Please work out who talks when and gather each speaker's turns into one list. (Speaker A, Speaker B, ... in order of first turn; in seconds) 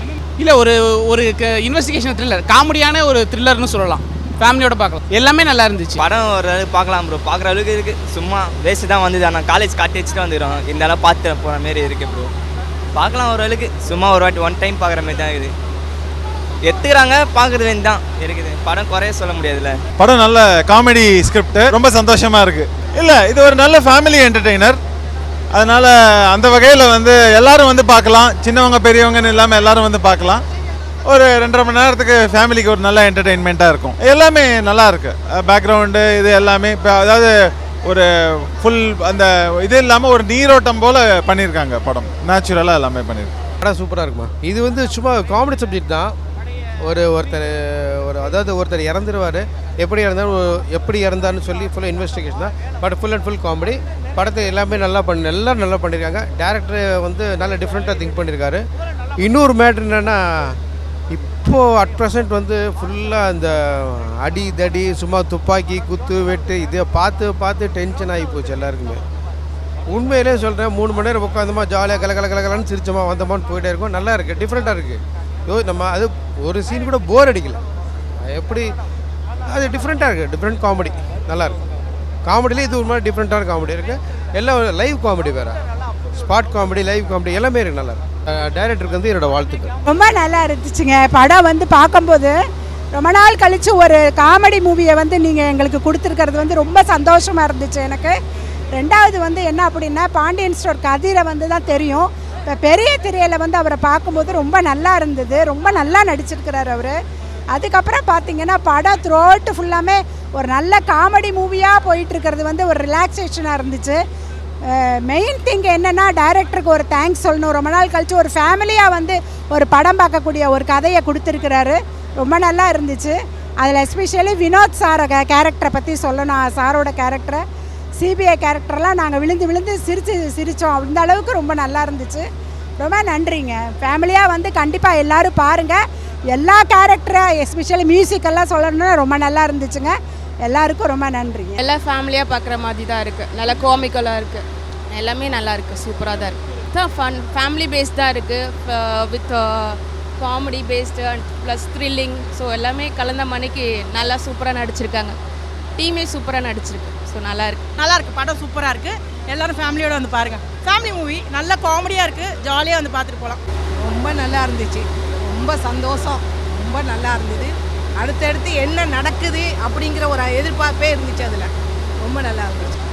Speaker A: 0.4-6.0
Speaker B: 6.0-12.3, 12.9-15.5, 16.7-19.8
Speaker C: 20.0-24.8, 25.5-30.4, 31.1-37.3, 37.9-43.3
Speaker D: 43.6-46.1, 46.8-58.6, 59.2-60.5, 61.1-69.0, 69.9-77.6, 78.2-78.7, 79.5-81.6, 82.2-85.6, 86.2-89.7
Speaker E: 89.8-92.3, 92.9-98.2, 98.7-107.0, 107.5-114.0, 114.7-127.4, 128.0-132.3, 132.8-135.8, 136.3-141.6
Speaker F: 141.6-155.2, 155.8-157.6
Speaker G: 157.8-171.5, 172.0-172.8